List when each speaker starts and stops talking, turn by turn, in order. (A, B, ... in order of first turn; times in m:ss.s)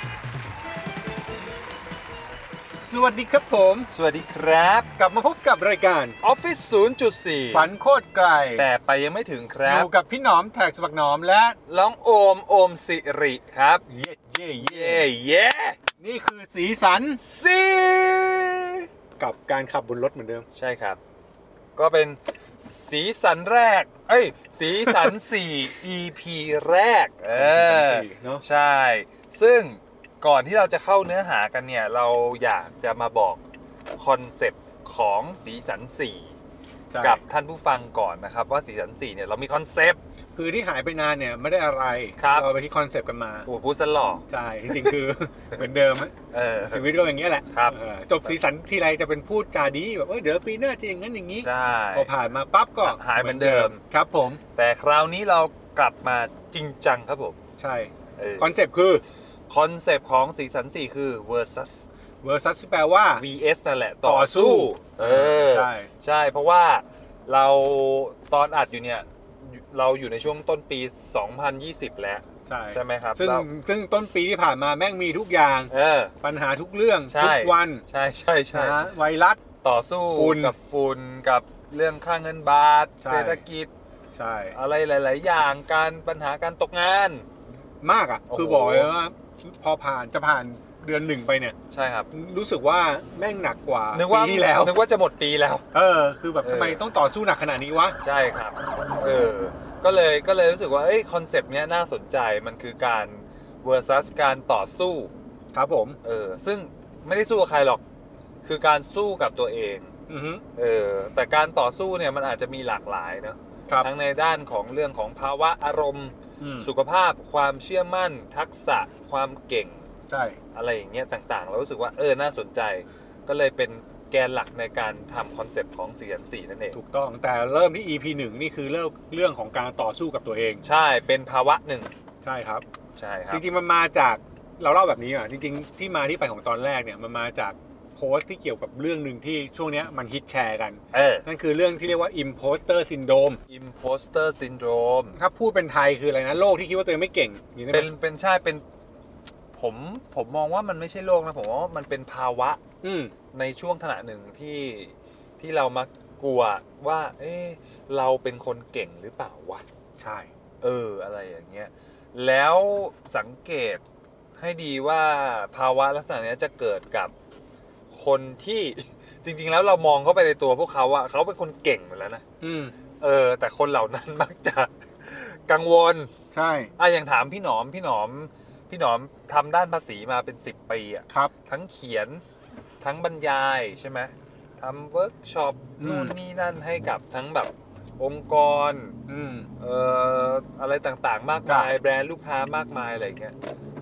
0:02.8-0:03.9 A
0:03.9-0:04.9 B
0:05.0-0:06.2 A
0:06.2-0:07.7 B
0:07.5-0:08.7 A
0:08.5-0:09.9 B
0:09.6-0:11.6 A
0:11.7-0:13.8 B
0:13.9-0:15.1 A
0:14.6-0:15.8 B
0:16.0-0:17.2 A
0:17.2-0:18.9 B
0:19.2-0:20.4 A
0:20.5-0:21.0 B
0:21.8-0:33.4 B
0:27.3-0:28.4 A
0:34.0-0:36.4 B
0:36.9-0:37.2 A
0:37.0-0:40.0 B
0:40.4-0:43.5 A
0:42.2-0:42.5 B
0:43.4-0:45.0 B
0:44.3-0:46.1 A
0:46.3-0:47.0 B
0:46.7-0:54.4 A
0:47.5-0:48.4 B
0:51.4-0:52.1 B
0:52.8-0:53.8 B
0:54.5-0:57.4 B
0:57.6-0:59.0 A
0:58.2-0:58.6 B
0:59.5-1:01.9 B
1:02.2-1:03.2 A
1:03.2-1:13.5 B
1:04.0-1:05.9 A
1:12.4-1:17.8 A
1:15.7-1:16.1 B
1:17.1-1:18.9 B
1:18.5-1:19.4 A
1:19.6-1:23.7 B
1:20.1-1:20.5 A
1:23.0-1:23.4 A
1:24.1-1:24.6 A
1:24.5-1:27.3 B
1:27.8-1:31.6 A
1:28.3-1:28.9 B
1:31.7-1:32.1 B
1:32.1-1:34.8 A
1:33.9-1:35.7 B
1:35.7-1:38.0 A
1:36.4-1:36.8 B
1:38.0-1:45.1 B
1:45.5-1:46.0 A
1:46.0-1:47.8 B
1:48.4-1:49.9 B
1:50.1-1:50.4 A
1:50.6-1:59.9 B
1:56.4-1:56.7 A
2:00.1-2:00.4 A
2:00.5-2:06.8 B
2:06.7-2:10.6 A
2:10.6-2:11.9 B
2:12.2-2:12.6 A
2:13.0-2:13.4 B
2:13.3-2:23.4 A
2:20.9-2:21.2 B
2:23.5-2:25.2 B
2:25.2-2:27.9 A
2:27.7-2:28.6 B
2:29.5-2:32.6 B
2:32.8-2:33.1 A
2:33.3-2:39.6 B
2:40.0-2:40.3 A
2:40.6-2:43.8 B
2:44.4-2:47.1 B
2:47.9-2:52.2 B
2:52.4-2:52.8 A
2:53.0-2:56.1 B
2:56.3-2:56.7 A
2:56.8-3:02.2 B
3:02.8-3:09.0 B
3:05.8-3:06.2 A
3:09.1-3:09.5 A
3:09.6-3:13.3 B
3:11.4-3:11.8 A